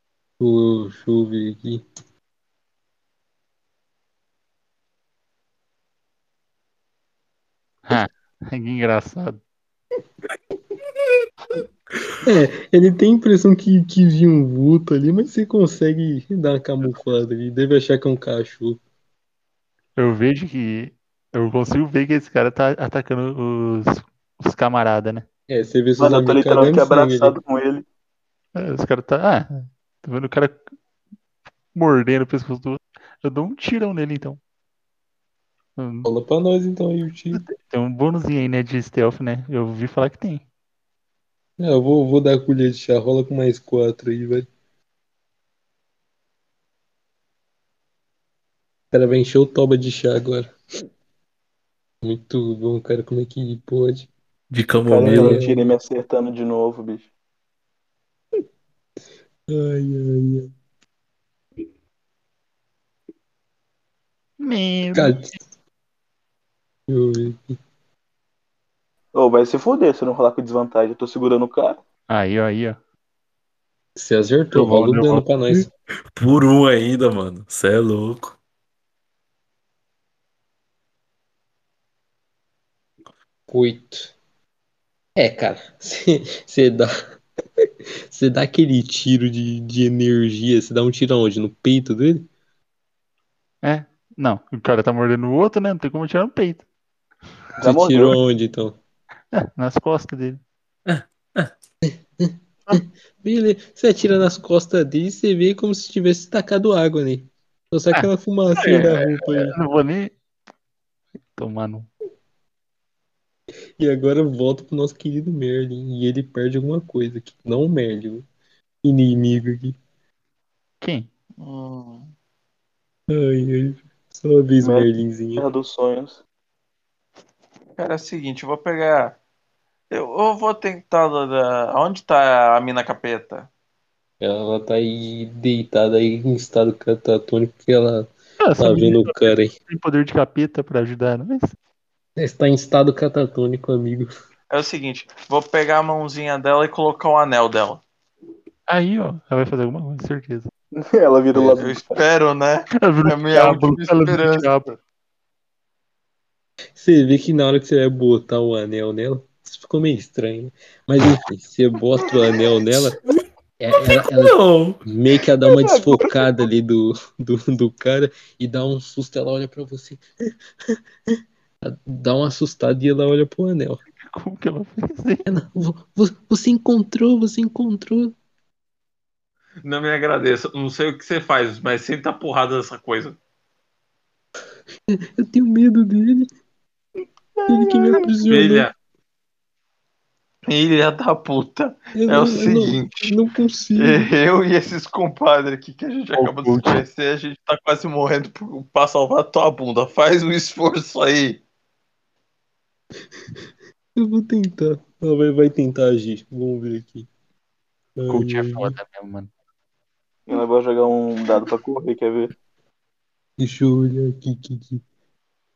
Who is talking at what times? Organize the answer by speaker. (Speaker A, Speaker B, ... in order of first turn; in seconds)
Speaker A: 0.4-1.8, 12.2-18.8, 25.5-27.4, 36.0-37.4, 41.6-44.5, 48.9-50.5, 52.0-54.1, 55.0-55.6, 59.5-60.5, 64.9-65.3, 66.9-67.6, 74.0-75.7, 83.5-84.1, 85.2-86.9, 88.1-92.3, 97.6-98.8, 101.8-109.6, 113.8-118.2, 118.8-119.8, 123.1-125.5, 134.2-139.5, 142.2-144.1, 156.8-163.0, 163.6-170.0, 171.6-173.8, 175.3-178.2, 184.9-186.3, 187.5-188.7, 191.9-194.1, 204.0-207.1, 208.0-208.8, 213.4-214.8
Speaker B: 7.9-9.4, 20.0-25.2, 28.6-30.6, 31.8-34.4, 35.8-36.1, 37.3-40.4, 64.4-65.3, 72.1-72.8, 74.5-75.7, 93.6-96.7, 99.3-100.4, 108.6-110.1, 111.3-111.9, 120.8-121.1, 138.4-141.5, 148.7-150.5, 152.8-154.8, 174.0-175.3, 196.2-196.8, 208.1-209.3
Speaker C: 26.0-27.9, 54.9-57.1, 69.1-71.8, 97.6-98.2, 124.6-126.2, 150.7-152.0, 165.5-166.2, 187.4-188.1, 210.3-212.3
Speaker D: 54.5-55.4, 76.2-78.4, 100.9-101.5, 163.8-164.8
Speaker E: 121.4-122.1, 127.8-129.2, 129.9-133.5, 144.5-147.8, 151.6-154.5, 179.6-183.2, 188.3-188.7, 190.5-193.1, 193.8-201.4